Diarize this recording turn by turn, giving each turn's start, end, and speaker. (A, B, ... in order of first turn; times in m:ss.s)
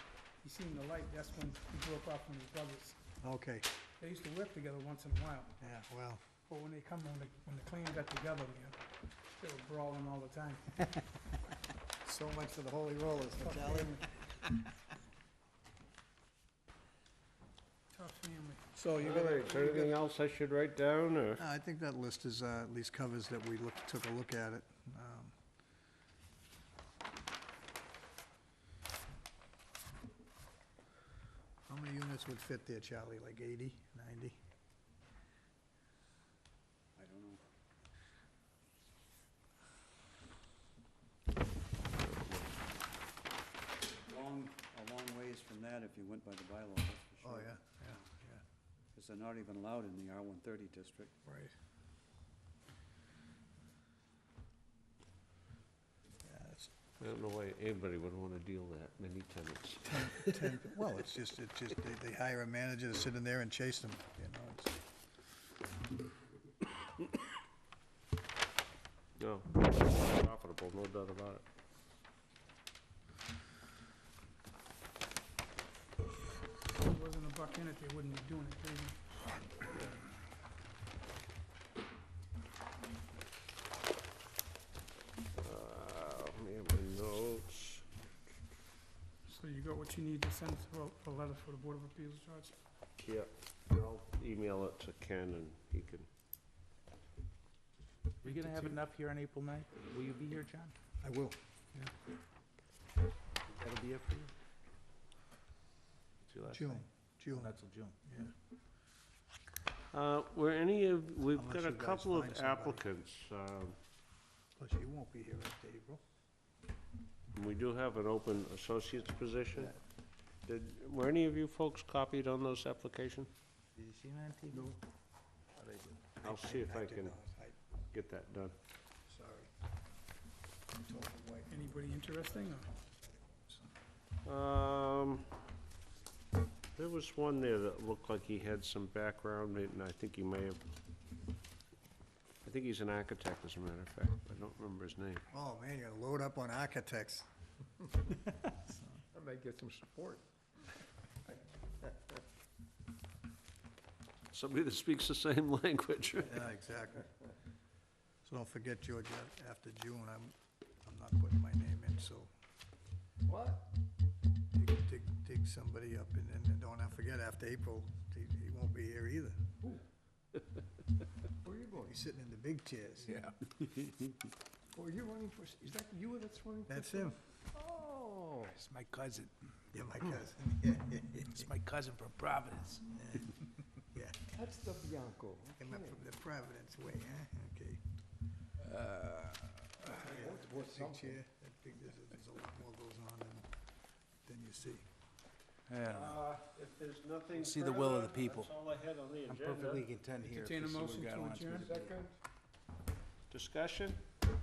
0:00.4-0:03.0 A
0:03.2-0:03.6 B
0:04.0-0:05.6 A
0:05.6-0:06.2 B
0:06.5-0:08.8 A
0:09.3-0:10.9 A
0:12.0-0:14.6 B
0:13.4-0:14.0 A
0:17.9-0:18.7 A
0:18.7-0:19.9 B
0:18.9-0:21.4 C
0:21.4-0:25.3 B
0:31.7-0:34.4 B
0:37.0-0:37.4 D
0:42.0-0:42.5 C
0:44.1-0:48.0 D
0:47.2-0:48.4 B
0:48.9-0:51.2 D
0:51.2-0:51.5 B
0:56.2-0:56.7 B
0:57.0-1:00.4 C
0:59.8-1:04.8 B
1:09.2-1:11.4 C
1:16.8-1:19.0 A
1:25.4-1:27.9 C
1:29.2-1:32.6 A
1:33.0-1:36.1 C
1:38.2-1:40.7 E
1:41.0-1:41.4 B
1:43.5-1:44.3 E
1:46.3-1:48.0 E
1:46.5-1:47.5 B
1:48.1-1:48.3 B
1:49.9-1:53.8 C
1:51.3-1:52.8 B
1:54.6-1:56.0 B
1:57.3-1:59.8 C
2:00.4-2:03.3 C
2:03.8-2:04.7 E
2:05.6-2:06.0 E
2:06.2-2:07.6 B
2:06.2-2:07.2 C
2:07.9-2:08.5 C
2:09.1-2:09.5 B
2:10.8-2:11.6 B
2:11.5-2:12.7 A
2:14.2-2:15.3 C
2:16.8-2:20.6 C
2:22.4-2:25.2 C
2:25.3-2:27.3 B
2:28.0-2:29.0 B
2:29.1-2:30.2 F
2:34.3-2:36.5 C
2:36.2-2:37.1 B
2:38.2-2:42.3 B
2:43.3-2:43.7 F
2:44.5-2:49.4 B
2:51.4-2:51.9 F
2:51.8-2:53.2 B
2:54.7-2:58.6 F
2:56.7-2:57.2 B
2:58.5-2:59.3 E
2:59.7-3:01.4 B
3:01.3-3:02.8 E
3:02.9-3:03.3 B
3:03.9-3:04.3 B
3:04.3-3:06.0 F
3:05.6-3:07.8 B
3:08.6-3:10.0 E
3:10.0-3:13.5 B
3:10.2-3:11.2 F
3:14.2-3:14.8 B
3:15.7-3:16.2 E
3:15.8-3:19.8 C
3:17.3-3:18.5 E
3:19.2-3:22.0 E
3:20.2-3:21.7 A
3:21.6-3:22.2 F
3:23.3-3:24.0 C